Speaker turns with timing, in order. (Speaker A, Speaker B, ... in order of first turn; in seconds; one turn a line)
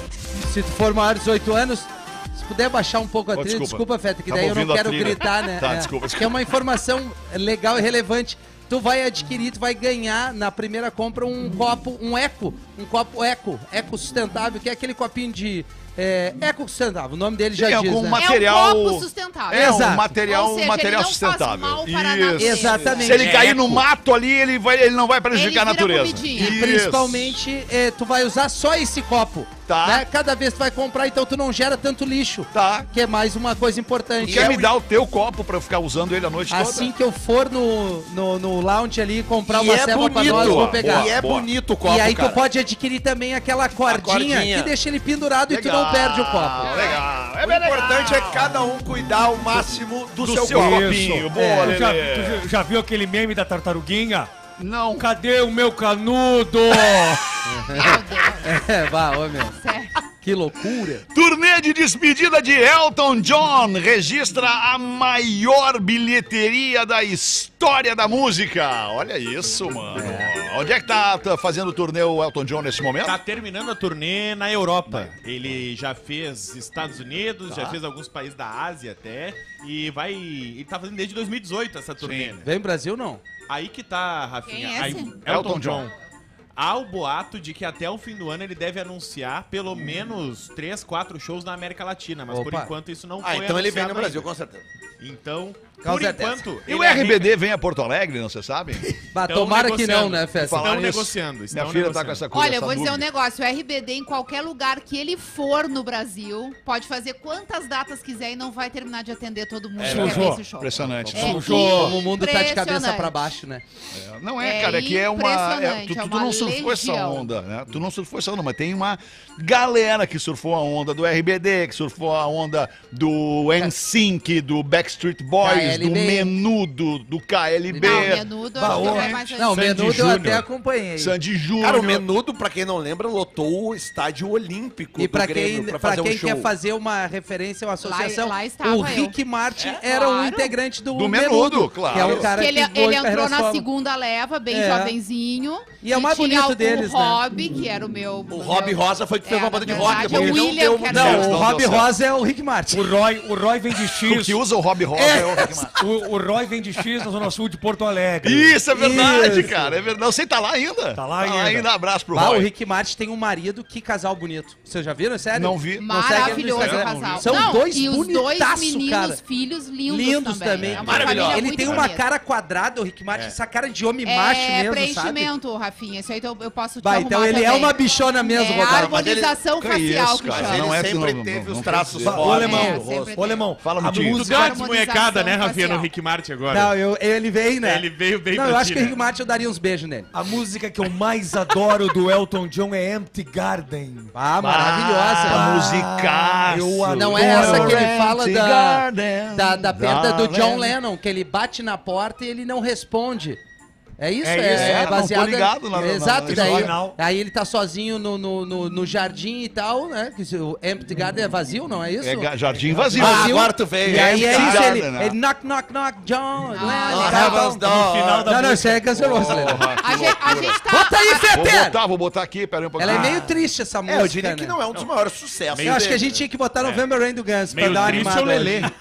Speaker A: 0.4-18.2
Speaker B: 3.3-6.4
Speaker B: 17.5-27.4
Speaker C: 18.1-23.3
Speaker A: 19.5-20.1
Speaker A: 22.4-23.8
Speaker D: 23.0-23.6
Speaker C: 25.3-26.6
Speaker A: 26.3-34.6
Speaker B: 29.7-30.1
Speaker B: 32.5-32.9
Speaker E: 34.2-34.7
Speaker B: 34.2-36.9
Speaker A: 36.5-41.1
Speaker E: 39.5-42.4
Speaker B: 40.1-41.5
Speaker A: 41.8-46.7
Speaker E: 43.9-44.7
Speaker B: 45.5-48.6
Speaker E: 46.8-51.1
Speaker B: 50.2-52.5
Speaker F: 50.3-54.3
Speaker A: 51.3-51.8
Speaker B: 54.6-55.1
Speaker F: 54.9-57.4
Speaker A: 57.4-59.6
Speaker C: 57.7-58.6
Speaker C: 59.4-59.9
Speaker A: 60.2-61.0
Speaker B: 61.1-73.2
Speaker A: 69.9-70.3
Speaker D: 73.0-82.5
Speaker B: 74.9-75.1
Speaker B: 82.0-82.3
Speaker A: 82.4-83.2
Speaker D: 83.5-85.9
Speaker C: 84.5-85.2
Speaker B: 85.2-85.9
Speaker D: 86.5-94.3
Speaker A: 92.3-92.7
Speaker E: 93.2-94.6
Speaker D: 95.0-97.3
Speaker A: 95.8-96.4
Speaker B: 96.7-98.8
Speaker A: 99.1-100.7
Speaker D: 99.2-102.2
Speaker B: 100.3-103.0
Speaker C: 102.3-113.3
Speaker F: 109.8-110.5
Speaker E: 109.8-110.2
Speaker B: 110.5-111.6
Speaker F: 111.1-112.0
Speaker A: 111.4-113.6
Speaker B: 113.9-129.2
Speaker C: 114.4-117.3
Speaker A: 125.4-126.3
Speaker A: 127.7-131.1
Speaker C: 127.8-129.7
Speaker D: 129.5-130.4
Speaker B: 131.0-132.0
Speaker E: 131.6-136.5
Speaker A: 134.9-143.7
Speaker C: 137.8-140.6
Speaker B: 140.9-142.3
Speaker E: 141.9-142.3
Speaker C: 142.2-151.5
Speaker A: 144.5-144.9
Speaker A: 145.8-147.2
Speaker E: 148.3-151.2
Speaker F: 149.8-150.4
Speaker A: 150.9-152.8
Speaker B: 150.9-151.9
Speaker F: 152.7-154.4
Speaker B: 153.8-155.8
Speaker A: 155.0-155.6
Speaker F: 155.3-158.6
Speaker B: 158.2-162.5
Speaker A: 158.7-159.7
Speaker F: 160.9-161.7
Speaker A: 162.1-169.2
Speaker B: 165.3-167.4
Speaker C: 165.7-172.0
Speaker D: 166.9-167.2
Speaker A: 169.8-175.3
Speaker B: 170.6-171.2
Speaker E: 170.8-171.4
Speaker C: 174.0-180.8
Speaker A: 176.8-179.0
Speaker E: 178.6-179.4
Speaker B: 179.6-182.6
Speaker E: 180.3-183.4
Speaker F: 182.0-184.5
Speaker C: 182.3-183.4
Speaker B: 183.6-184.2
Speaker D: 184.1-186.7
Speaker C: 184.2-185.9
Speaker A: 186.5-190.1
Speaker D: 187.6-189.0
Speaker F: 190.1-198.0
Speaker A: 194.1-195.5
Speaker B: 195.2-200.8
Speaker A: 196.9-203.4
Speaker A: 204.0-212.3
Speaker F: 204.2-204.9
Speaker B: 204.5-206.7
Speaker F: 206.2-207.0
Speaker B: 212.0-215.2
Speaker F: 212.6-213.3
Speaker A: 212.9-217.6
Speaker E: 212.9-214.8
Speaker C: 216.5-217.4
Speaker E: 216.9-218.3
Speaker F: 217.2-219.5
Speaker A: 218.2-219.8
Speaker B: 218.9-220.6
Speaker C: 219.7-221.3
Speaker A: 220.7-221.8
Speaker B: 221.3-223.3
Speaker A: 222.8-224.6
Speaker E: 223.9-226.2
Speaker D: 225.5-226.1
Speaker A: 225.6-228.7
Speaker D: 227.5-228.7